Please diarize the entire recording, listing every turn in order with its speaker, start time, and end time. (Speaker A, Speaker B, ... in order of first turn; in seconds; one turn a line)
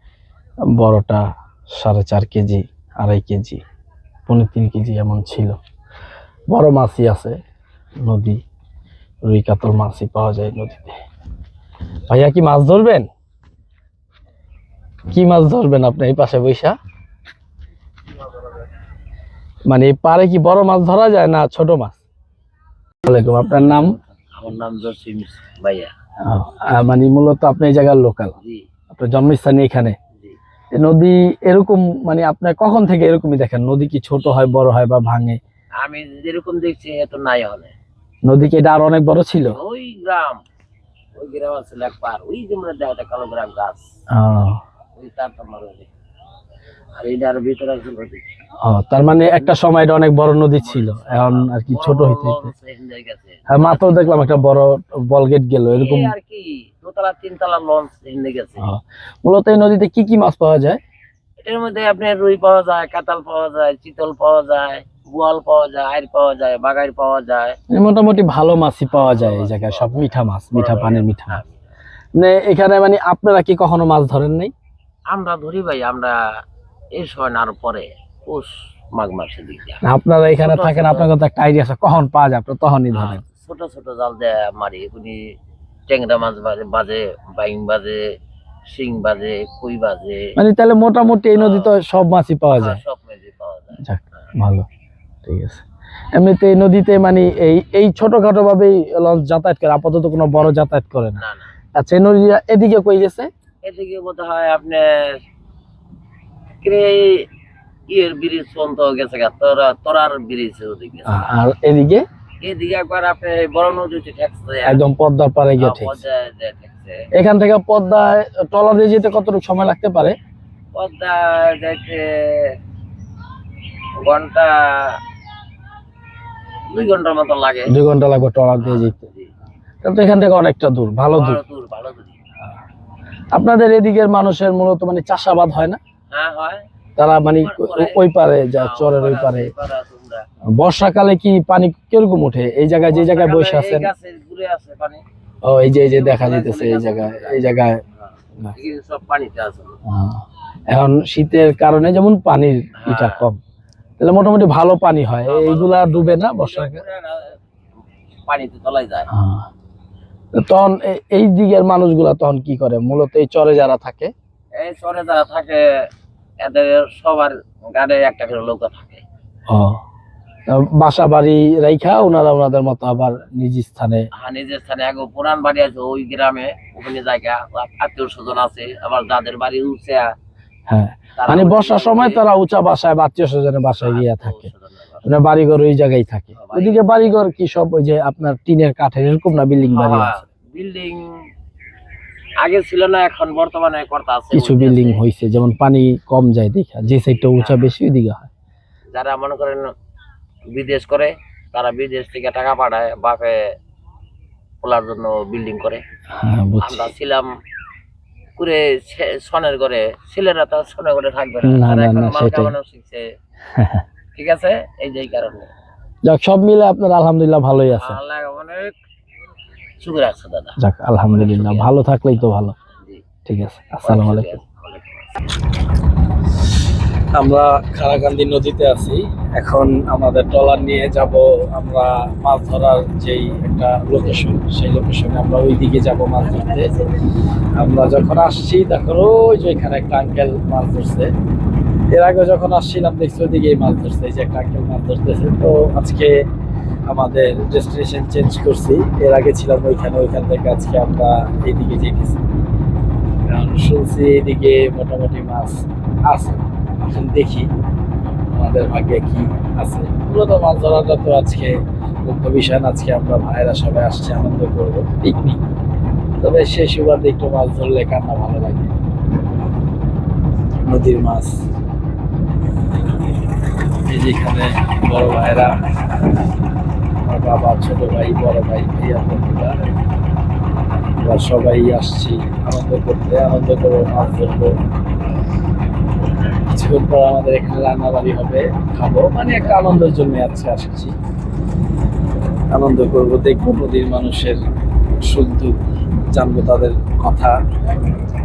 Speaker A: 0.8-1.2
Speaker A: 1.8-3.6
Speaker A: 4.3-5.6
Speaker A: 6.5-7.4
Speaker A: 8.0-8.4
Speaker A: 9.2-11.0
Speaker A: 12.1-13.1
Speaker A: 15.1-16.8
Speaker A: 19.7-22.0
Speaker A: 23.1-24.0
Speaker B: 23.5-25.9
Speaker A: 26.3-28.3
Speaker B: 28.4-28.7
Speaker A: 28.9-29.9
Speaker A: 30.8-35.4
Speaker B: 35.8-37.7
Speaker A: 38.2-39.6
Speaker B: 39.5-40.4
Speaker B: 41.2-43.8
Speaker A: 44.2-44.6
Speaker B: 45.0-45.9
Speaker B: 47.0-48.2
Speaker A: 48.6-52.5
Speaker B: 50.5-54.5
Speaker A: 53.5-56.1
Speaker B: 55.8-58.6
Speaker A: 58.6-60.8
Speaker B: 61.4-67.6
Speaker A: 67.7-71.4
Speaker B: 68.9-71.7
Speaker A: 72.2-74.5
Speaker B: 75.1-76.2
Speaker B: 76.9-81.1
Speaker A: 79.8-83.2
Speaker B: 82.9-85.2
Speaker B: 85.9-88.1
Speaker B: 88.7-90.3
Speaker A: 90.4-92.8
Speaker B: 91.3-91.8
Speaker B: 92.6-94.3
Speaker A: 93.8-94.7
Speaker A: 95.2-95.6
Speaker A: 96.2-101.2
Speaker B: 101.2-101.5
Speaker A: 101.8-103.3
Speaker B: 103.6-105.2
Speaker B: 106.6-107.2
Speaker B: 107.9-111.3
Speaker A: 111.1-112.0
Speaker B: 112.4-114.8
Speaker A: 114.7-116.0
Speaker B: 115.6-117.0
Speaker A: 117.2-120.2
Speaker B: 120.7-122.5
Speaker B: 124.0-125.0
Speaker B: 126.7-127.7
Speaker A: 127.7-129.0
Speaker B: 128.6-129.3
Speaker A: 129.8-131.4
Speaker B: 131.1-132.2
Speaker A: 133.3-135.8
Speaker B: 136.1-136.6
Speaker A: 137.0-139.5
Speaker B: 137.4-140.2
Speaker A: 140.6-143.9
Speaker B: 142.9-145.0
Speaker A: 145.4-147.8
Speaker B: 145.8-149.7
Speaker A: 149.9-153.4
Speaker B: 152.8-153.2
Speaker A: 154.0-156.8
Speaker B: 155.3-157.4
Speaker B: 158.3-159.1
Speaker A: 159.1-159.5
Speaker A: 160.3-164.1
Speaker B: 164.6-165.6
Speaker B: 166.4-169.0
Speaker A: 169.5-169.8
Speaker A: 170.5-174.1
Speaker B: 174.2-180.1
Speaker A: 180.7-184.5
Speaker B: 181.2-182.2
Speaker B: 183.8-185.0
Speaker A: 185.1-190.2
Speaker B: 186.3-187.1
Speaker B: 189.7-191.1
Speaker B: 192.4-195.0
Speaker A: 194.3-198.3
Speaker B: 197.4-197.7
Speaker B: 198.9-199.7
Speaker B: 200.5-203.4
Speaker B: 204.6-205.8
Speaker A: 206.2-206.9
Speaker B: 206.6-207.3
Speaker B: 208.4-213.0
Speaker A: 211.4-212.6
Speaker A: 213.5-213.8
Speaker B: 214.2-215.5
Speaker A: 216.1-218.0
Speaker B: 217.8-218.8
Speaker B: 219.8-220.6
Speaker A: 220.6-222.6
Speaker B: 221.1-221.8
Speaker A: 223.3-224.4
Speaker B: 223.8-225.1
Speaker A: 227.1-236.8
Speaker A: 237.6-241.1
Speaker A: 241.9-246.2
Speaker A: 246.9-252.2
Speaker A: 253.3-257.5
Speaker A: 258.3-265.4
Speaker A: 266.2-268.7
Speaker A: 270.7-271.4
Speaker A: 273.7-276.1
Speaker A: 277.0-279.6
Speaker A: 281.0-284.6
Speaker A: 286.5-290.9
Speaker A: 292.5-294.4
Speaker A: 295.0-295.6
Speaker A: 296.1-297.4